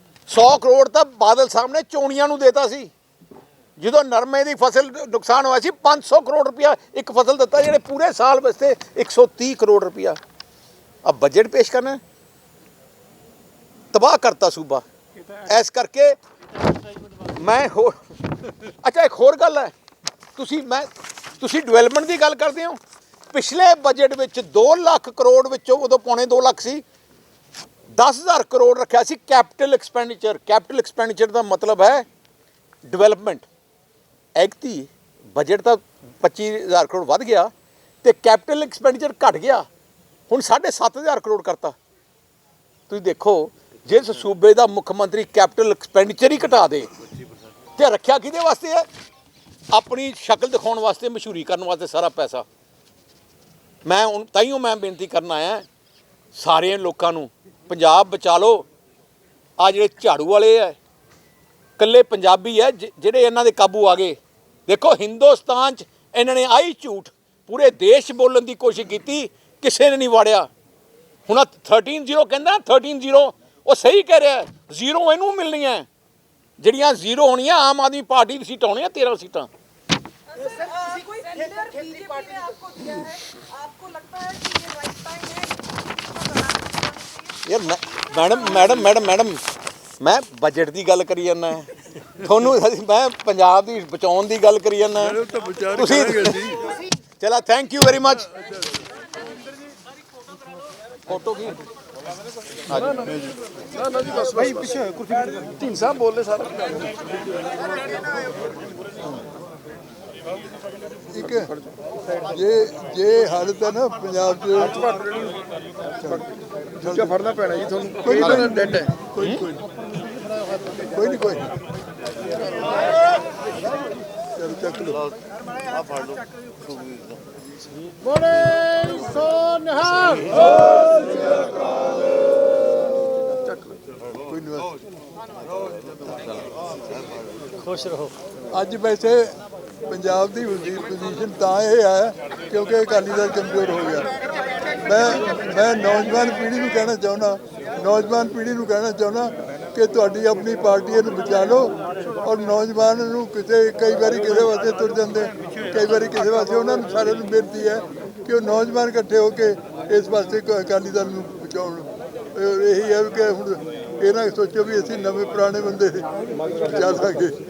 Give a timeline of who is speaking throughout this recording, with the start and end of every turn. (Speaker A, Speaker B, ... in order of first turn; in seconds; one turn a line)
Speaker A: 0.3-2.9
Speaker A: 3.8-10.2
Speaker A: 11.1-12.0
Speaker A: 13.9-14.8
Speaker A: 15.4-16.2
Speaker A: 17.3-19.7
Speaker A: 20.4-22.8
Speaker A: 23.3-26.8
Speaker A: 28.0-32.0
Speaker A: 32.9-33.5
Speaker A: 34.4-37.5
Speaker A: 38.0-39.6
Speaker A: 40.3-41.7
Speaker A: 42.9-46.9
Speaker A: 47.8-48.9
Speaker A: 49.7-52.5
Speaker A: 53.9-55.6
Speaker A: 56.3-58.7
Speaker A: 59.6-60.8
Speaker A: 61.8-70.5
Speaker A: 71.3-75.9
Speaker A: 76.6-79.5
Speaker B: 80.3-87.2
Speaker A: 87.5-89.4
Speaker B: 88.2-88.7
Speaker A: 90.0-95.2
Speaker C: 95.0-96.7
Speaker A: 95.8-98.3
Speaker C: 98.3-98.8
Speaker A: 101.1-101.6
Speaker A: 102.7-103.2
Speaker D: 103.8-106.9
Speaker C: 111.1-111.5
Speaker C: 112.3-115.0
Speaker C: 116.0-116.2
Speaker C: 116.8-117.2
Speaker D: 117.2-117.8
Speaker C: 118.0-119.7
Speaker A: 119.2-119.5
Speaker C: 120.9-121.6
Speaker C: 124.4-125.0
Speaker E: 125.0-127.2
Speaker F: 128.1-130.7
Speaker C: 130.7-131.3
Speaker C: 134.3-134.7
Speaker E: 135.4-137.5
Speaker F: 137.6-138.2
Speaker C: 138.5-139.4
Speaker C: 139.9-144.1
Speaker C: 144.8-166.1
Speaker C: 166.6-167.4